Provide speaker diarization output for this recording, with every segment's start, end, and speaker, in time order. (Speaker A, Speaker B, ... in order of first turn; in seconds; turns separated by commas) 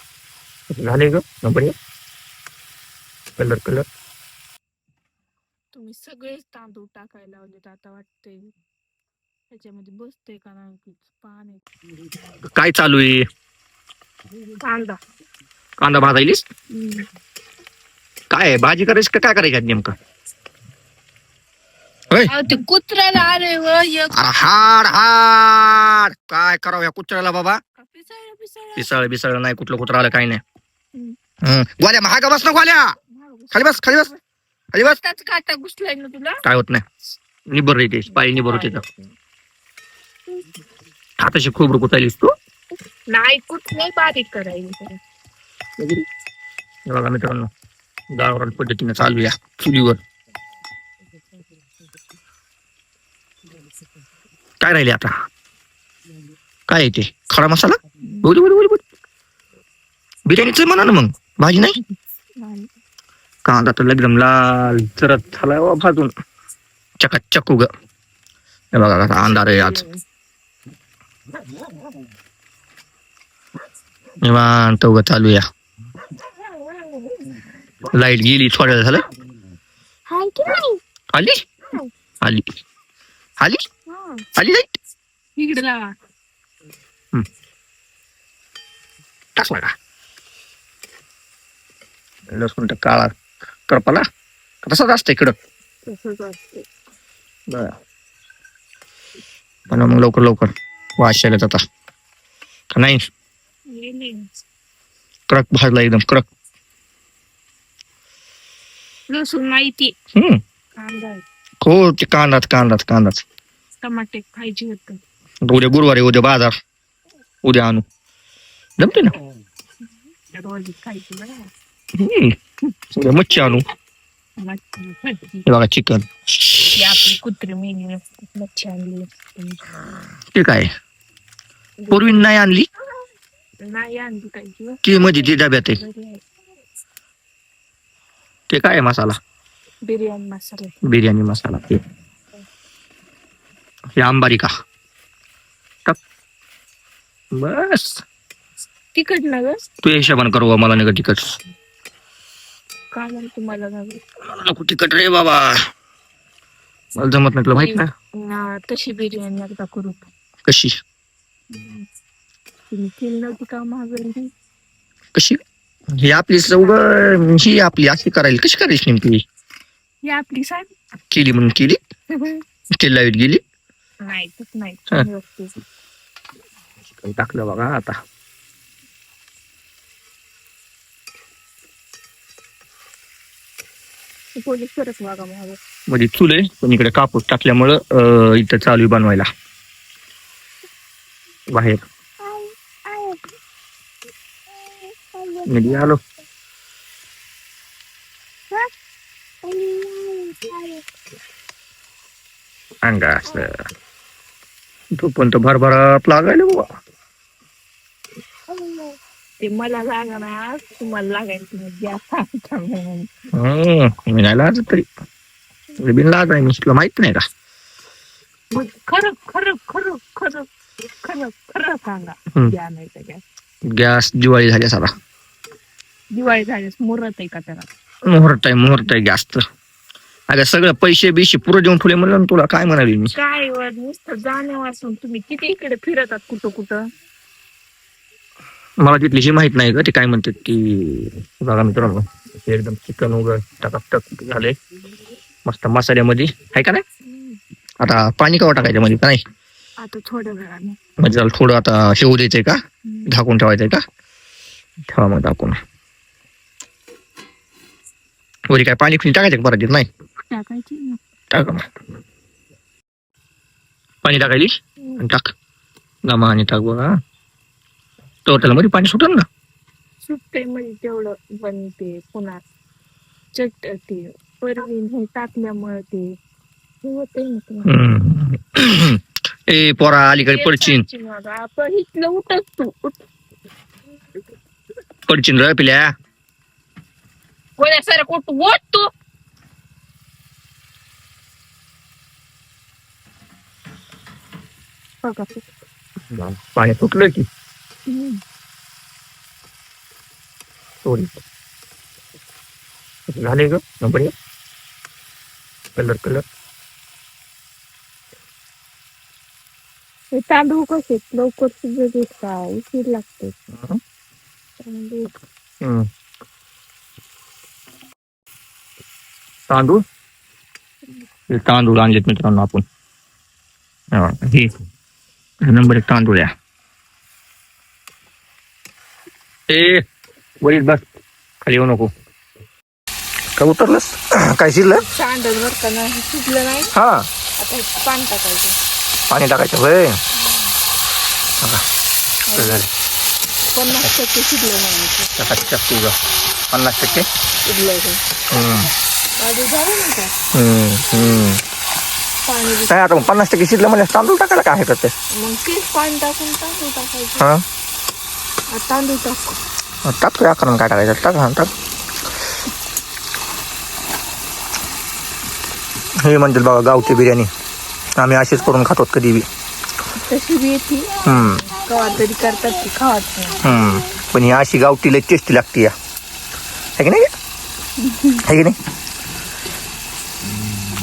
Speaker A: 0.7-1.7, Speaker A: 3.4-3.8, Speaker B: 5.7-8.5, Speaker B: 9.5-11.6, Speaker A: 12.4-13.2, Speaker B: 14.6-15.0, Speaker A: 15.8-16.4, Speaker B: 16.7-17.1, Speaker A: 18.3-19.9, Speaker B: 22.3-24.3, Speaker A: 24.1-27.6, Speaker B: 27.8-29.1, Speaker A: 28.8-30.4, Speaker A: 31.4-33.0, Speaker B: 33.1-34.2, Speaker A: 33.5-34.1, Speaker A: 34.7-35.0, Speaker B: 34.8-36.4, Speaker A: 36.4-36.8, Speaker A: 37.5-38.8, Speaker B: 38.1-39.1, Speaker A: 41.2-42.3, Speaker B: 43.1-45.0, Speaker A: 45.8-46.0, Speaker A: 46.9-47.5, Speaker A: 48.1-50.0, Speaker A: 54.6-55.1, Speaker A: 56.7-58.8, Speaker A: 60.3-61.8, Speaker B: 62.4-62.7, Speaker A: 63.4-66.1, Speaker A: 67.0-67.7, Speaker A: 68.7-69.8, Speaker B: 69.2-70.0, Speaker A: 74.2-75.5, Speaker B: 76.5-77.4, Speaker A: 77.9-79.0, Speaker B: 80.1-80.8, Speaker A: 82.2-82.5, Speaker B: 83.9-84.2, Speaker A: 84.3-84.7, Speaker B: 85.4-85.9, Speaker A: 89.3-89.7, Speaker A: 92.3-93.1, Speaker A: 93.7-94.0, Speaker A: 94.6-95.3, Speaker B: 95.9-96.7, Speaker A: 97.5-97.7, Speaker A: 99.7-101.6, Speaker A: 102.7-103.1, Speaker B: 103.7-104.3, Speaker A: 105.3-106.2, Speaker B: 109.1-109.9, Speaker A: 110.1-110.4, Speaker B: 110.8-111.2, Speaker A: 111.6-113.2, Speaker B: 113.8-115.0, Speaker A: 115.5-116.5, Speaker A: 117.4-117.8, Speaker A: 118.8-119.1, Speaker B: 120.3-121.5, Speaker A: 121.9-122.3, Speaker A: 122.9-123.6, Speaker B: 124.4-125.4, Speaker A: 125.4-126.7, Speaker B: 126.7-129.6, Speaker A: 130.3-130.7, Speaker B: 131.8-132.4, Speaker A: 131.9-132.7, Speaker B: 133.6-136.2, Speaker A: 134.8-135.8, Speaker A: 138.5-139.2, Speaker B: 139.8-140.8, Speaker A: 140.8-141.8, Speaker A: 144.0-144.5, Speaker A: 147.3-148.0, Speaker B: 148.9-149.6, Speaker A: 149.8-151.4, Speaker B: 152.9-154.0, Speaker A: 154.2-155.7, Speaker A: 156.9-157.9, Speaker B: 157.5-160.1, Speaker A: 160.4-160.7, Speaker B: 161.5-161.8, Speaker B: 162.7-164.3, Speaker A: 165.9-169.2, Speaker B: 170.0-170.7, Speaker A: 171.1-171.8, Speaker B: 172.1-172.4, Speaker A: 172.8-173.4, Speaker B: 174.0-175.6, Speaker A: 176.8-178.0, Speaker B: 184.3-185.6, Speaker A: 185.9-189.3, Speaker A: 191.5-191.8, Speaker B: 192.2-193.2, Speaker B: 194.7-195.8, Speaker A: 195.5-196.0, Speaker B: 199.5-200.8, Speaker A: 202.8-203.6, Speaker A: 204.9-206.7, Speaker B: 208.5-213.1, Speaker A: 213.3-214.9, Speaker A: 215.8-217.2, Speaker B: 218.5-220.5, Speaker B: 221.0-223.2, Speaker A: 223.7-224.9, Speaker B: 226.1-227.7, Speaker A: 228.1-229.4, Speaker A: 230.3-233.1, Speaker B: 233.1-236.8, Speaker A: 238.8-244.6, Speaker A: 245.4-246.8, Speaker B: 247.1-247.4, Speaker A: 247.8-249.2, Speaker B: 249.8-250.8, Speaker A: 251.0-253.8, Speaker B: 252.9-253.1, Speaker A: 254.9-255.6, Speaker A: 258.5-259.9, Speaker B: 260.3-261.0, Speaker A: 261.3-261.7, Speaker A: 264.0-265.3, Speaker A: 266.0-266.9, Speaker A: 268.2-269.3, Speaker B: 270.0-272.4, Speaker B: 273.3-276.1, Speaker B: 276.8-277.7, Speaker A: 277.6-280.8, Speaker B: 280.2-283.0, Speaker A: 285.1-285.9, Speaker B: 287.6-288.9, Speaker B: 295.0-295.4, Speaker A: 296.1-297.3, Speaker B: 297.9-298.2, Speaker A: 300.8-301.1, Speaker A: 303.1-304.1, Speaker A: 305.8-306.2, Speaker B: 310.1-313.3, Speaker A: 313.5-313.8, Speaker B: 314.6-315.1, Speaker A: 315.6-315.9, Speaker A: 319.5-319.8, Speaker A: 321.3-322.6, Speaker A: 323.9-324.5, Speaker A: 325.4-326.3, Speaker A: 329.5-329.8, Speaker A: 330.4-330.8, Speaker A: 331.4-331.9, Speaker A: 333.4-334.8, Speaker B: 334.9-336.7, Speaker A: 336.7-337.1, Speaker B: 337.4-338.6, Speaker A: 339.1-340.0, Speaker B: 340.2-340.5, Speaker B: 342.3-342.6, Speaker A: 342.4-342.7, Speaker B: 343.5-345.1, Speaker A: 345.1-346.0, Speaker A: 346.5-347.1, Speaker B: 347.4-348.0, Speaker A: 348.3-348.7, Speaker B: 349.2-350.1, Speaker A: 350.3-351.4, Speaker B: 352.2-353.1, Speaker A: 352.7-354.9, Speaker B: 355.1-357.3, Speaker B: 358.5-359.4, Speaker A: 359.8-361.5, Speaker A: 366.0-367.3, Speaker A: 367.9-369.3, Speaker B: 369.9-373.6, Speaker A: 371.0-371.5, Speaker A: 373.4-375.7, Speaker A: 376.8-377.1, Speaker B: 377.8-378.2, Speaker A: 378.2-378.6